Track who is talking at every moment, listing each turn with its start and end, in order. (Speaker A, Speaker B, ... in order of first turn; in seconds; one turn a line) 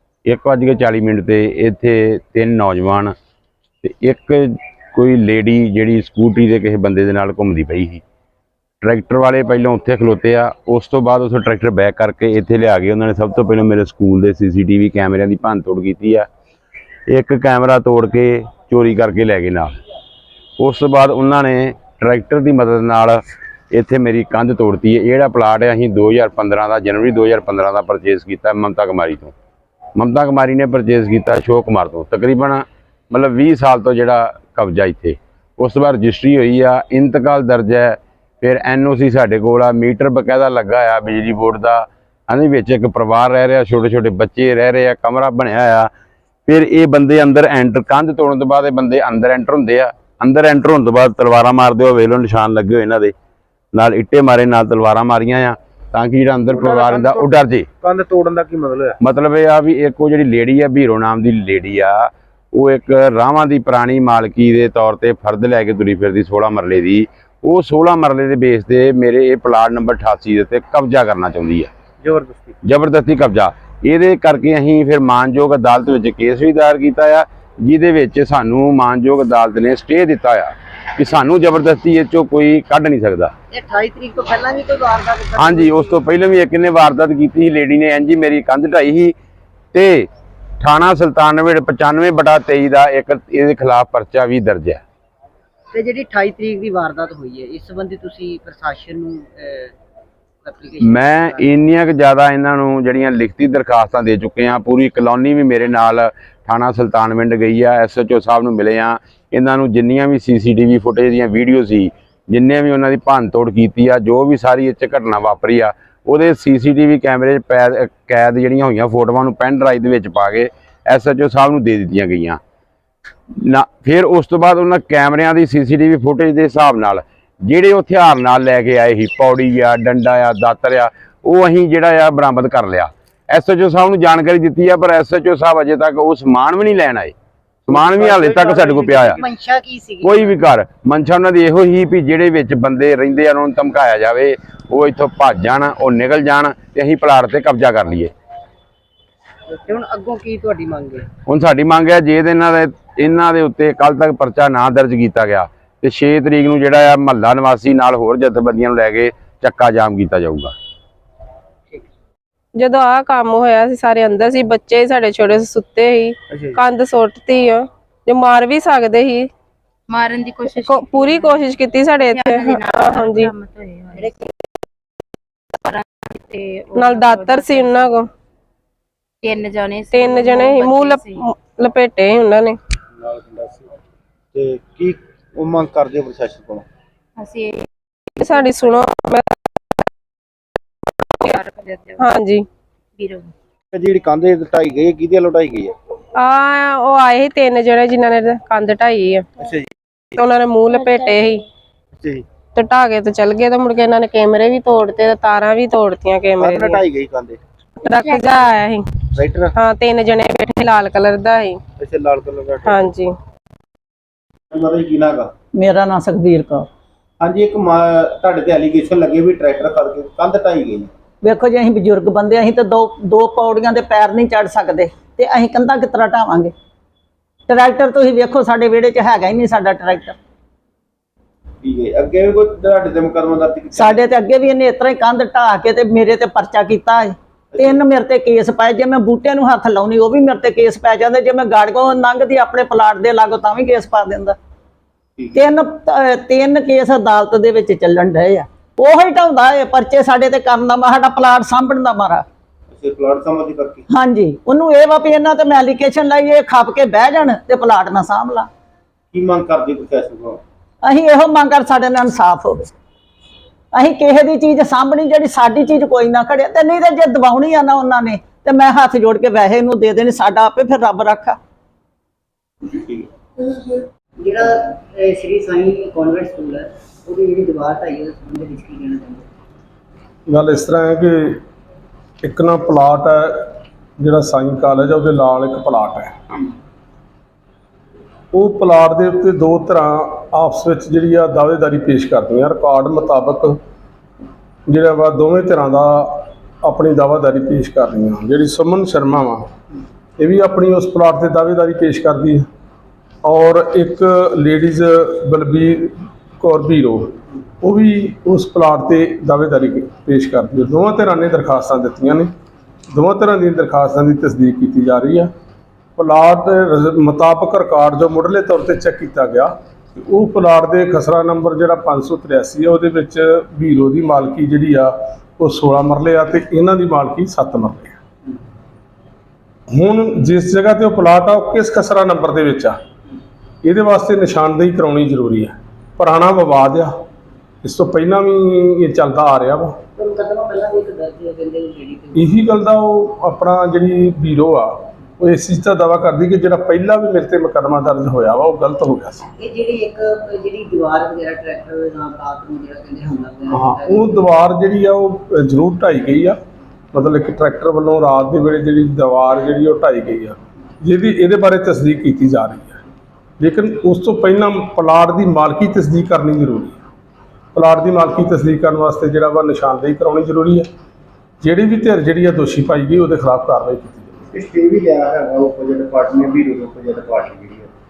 Speaker A: 0.3-3.1
Speaker A: 3.8-8.0
Speaker A: 8.8-16.3
Speaker A: 17.1-19.7
Speaker A: 20.6-29.3
Speaker A: 30.0-45.9
Speaker A: 46.5-53.1
Speaker A: 53.7-57.7
Speaker B: 56.5-59.0
Speaker A: 59.0-71.7
Speaker B: 72.0-72.6
Speaker A: 72.6-83.3
Speaker C: 83.5-86.0
Speaker A: 85.4-89.1
Speaker A: 89.7-90.1
Speaker A: 90.6-94.8
Speaker C: 95.7-99.7
Speaker C: 100.5-101.4
Speaker A: 100.8-122.4
Speaker A: 123.3-137.1
Speaker A: 137.7-139.2
Speaker C: 138.0-140.2
Speaker A: 140.0-148.1
Speaker C: 149.5-151.1
Speaker A: 151.2-160.6
Speaker D: 162.6-169.3
Speaker B: 166.3-166.6
Speaker E: 169.9-174.1
Speaker D: 170.6-173.3
Speaker E: 175.6-177.9
Speaker D: 176.8-178.1
Speaker E: 179.2-181.3
Speaker D: 179.9-182.6
Speaker B: 183.0-183.7
Speaker B: 184.3-186.7
Speaker E: 187.2-187.7
Speaker D: 188.2-189.3
Speaker E: 188.2-188.8
Speaker E: 191.3-192.1
Speaker D: 192.0-192.5
Speaker E: 193.0-193.3
Speaker B: 193.7-195.8
Speaker D: 196.2-199.3
Speaker B: 199.4-199.7
Speaker D: 200.2-201.4
Speaker E: 200.7-201.2
Speaker B: 202.0-202.2
Speaker D: 202.6-206.8
Speaker B: 206.4-207.4
Speaker D: 207.8-208.9
Speaker E: 207.9-208.5
Speaker B: 209.2-209.5
Speaker D: 209.6-211.6
Speaker B: 211.8-212.9
Speaker D: 212.7-213.1
Speaker B: 214.5-215.3
Speaker F: 215.6-216.7
Speaker B: 217.2-220.9
Speaker F: 221.2-226.5
Speaker F: 227.5-230.2
Speaker B: 231.6-234.0
Speaker F: 233.7-244.4
Speaker B: 237.5-237.8
Speaker B: 245.2-245.5
Speaker F: 245.3-252.2
Speaker B: 252.7-253.8
Speaker F: 253.9-258.5
Speaker B: 259.1-260.4
Speaker F: 260.8-262.7
Speaker F: 263.7-271.4
Speaker B: 272.7-273.0
Speaker C: 274.2-279.3
Speaker G: 280.3-281.4
Speaker G: 282.2-286.1
Speaker G: 288.3-293.6
Speaker G: 294.7-299.5
Speaker G: 300.2-302.4
Speaker G: 303.2-312.3
Speaker G: 312.9-315.3
Speaker G: 316.0-328.0
Speaker G: 329.7-332.8
Speaker G: 333.6-336.9
Speaker G: 337.6-339.8
Speaker C: 340.0-342.2
Speaker G: 342.1-349.3
Speaker C: 349.4-354.0
Speaker G: 353.5-356.4
Speaker G: 356.9-362.8
Speaker G: 363.4-366.8
Speaker G: 367.5-370.7
Speaker G: 371.4-374.2
Speaker B: 374.3-377.7